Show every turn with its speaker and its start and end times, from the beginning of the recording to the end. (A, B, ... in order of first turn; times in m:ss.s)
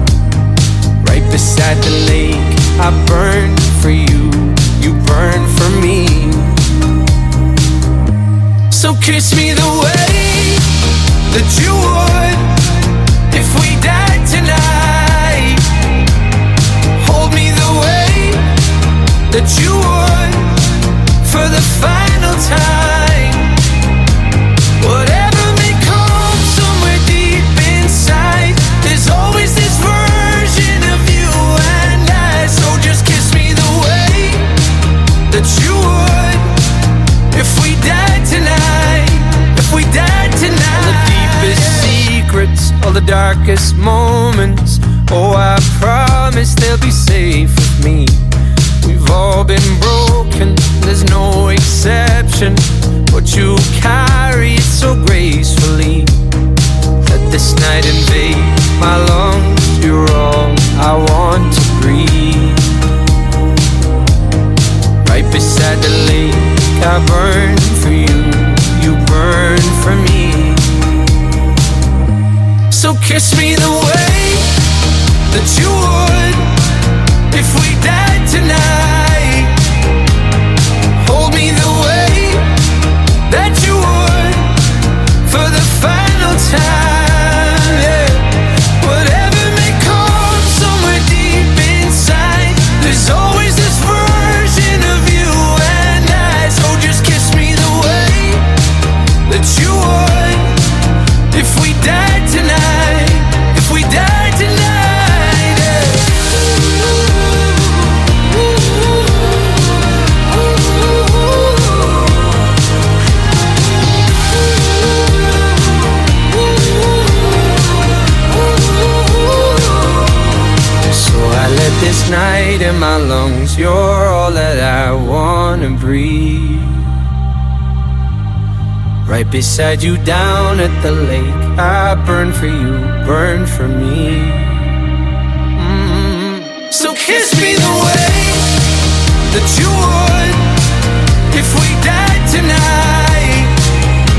0:01.0-0:06.6 A
0:08.7-0:15.8 A
0:16.9-0:18.5 A
0:19.3-0:23.6 A
0:24.8-0:34.6 A
0:35.3-0:36.5 A
0:37.3-0:48.2 A
0:48.8-0:56.1 A
0:57.0-1:02.8 A
1:05.0-1:11.0 A
1:12.7-1:14.6 A
1:15.3-1:16.6 A
1:17.3-1:19.6 A
1:21.0-1:22.5 A
1:23.3-1:24.6 A
1:25.2-1:38.5 A
1:39.2-1:40.7 A
1:41.3-1:46.4 A
2:00.9-2:06.9 A
2:09.0-2:14.7 A
2:15.5-2:18.7 A
2:19.3-2:20.5 A
2:21.3-2:23.6 A